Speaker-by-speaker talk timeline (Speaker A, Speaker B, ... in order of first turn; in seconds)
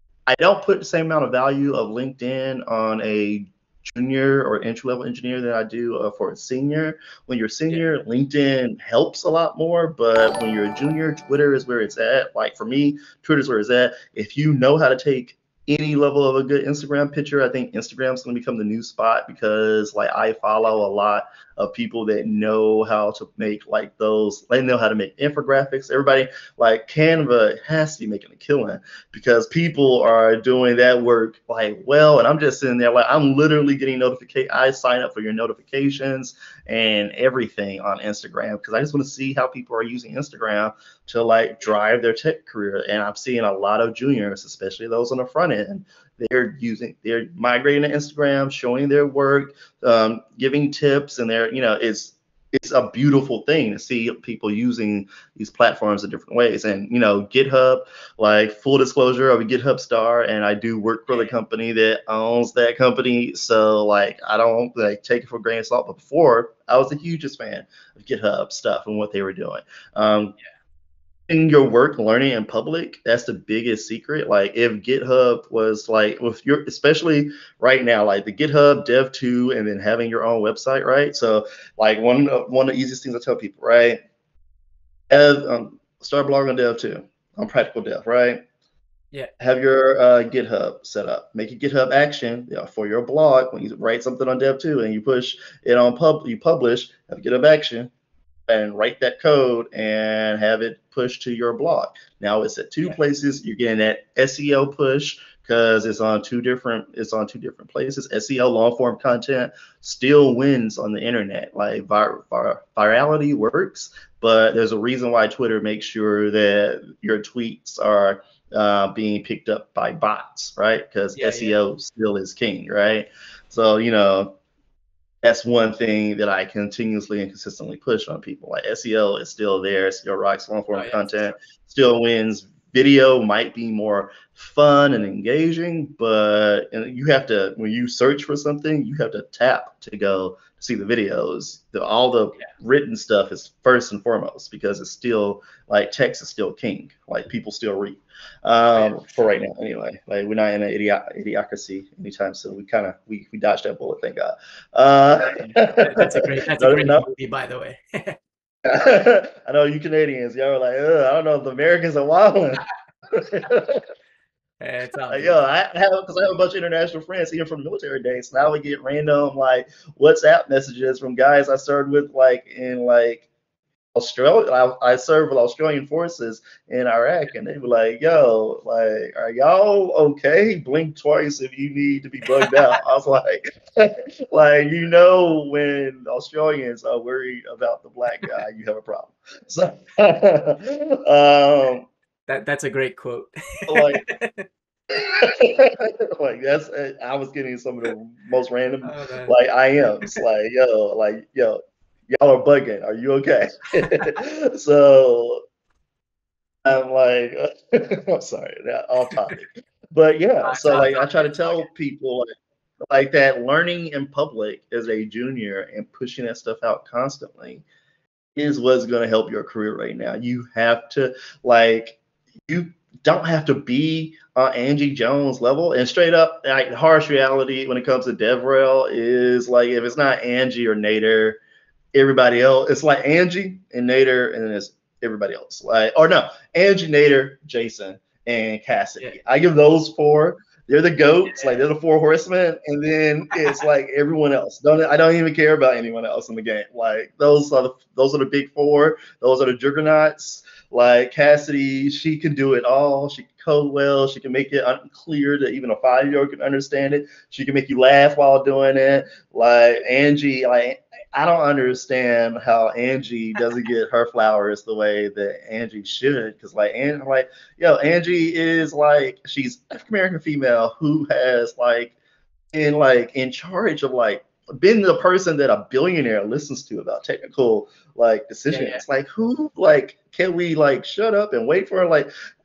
Speaker A: 0.3-70.3, 71.3-84.0, 85.1-88.4, 89.4-97.9, 98.5-124.4, 125.2-157.1, 158.7-163.8, 165.1-173.3, 173.9-191.9, 193.7-194.1, 194.9-201.6, 202.1-205.4, 206.7-212.3, 212.9-217.6, 218.4-231.4, 231.9-272.0, 272.5-282.1
Speaker B: 61.1-61.4, 121.2-121.6, 130.7-131.4, 148.8-149.3, 155.4-158.2, 164.6-165.4, 182.3-182.8, 192.3-194.5, 198.8-199.3, 210.4-211.6, 241.3-241.6, 278.5-278.8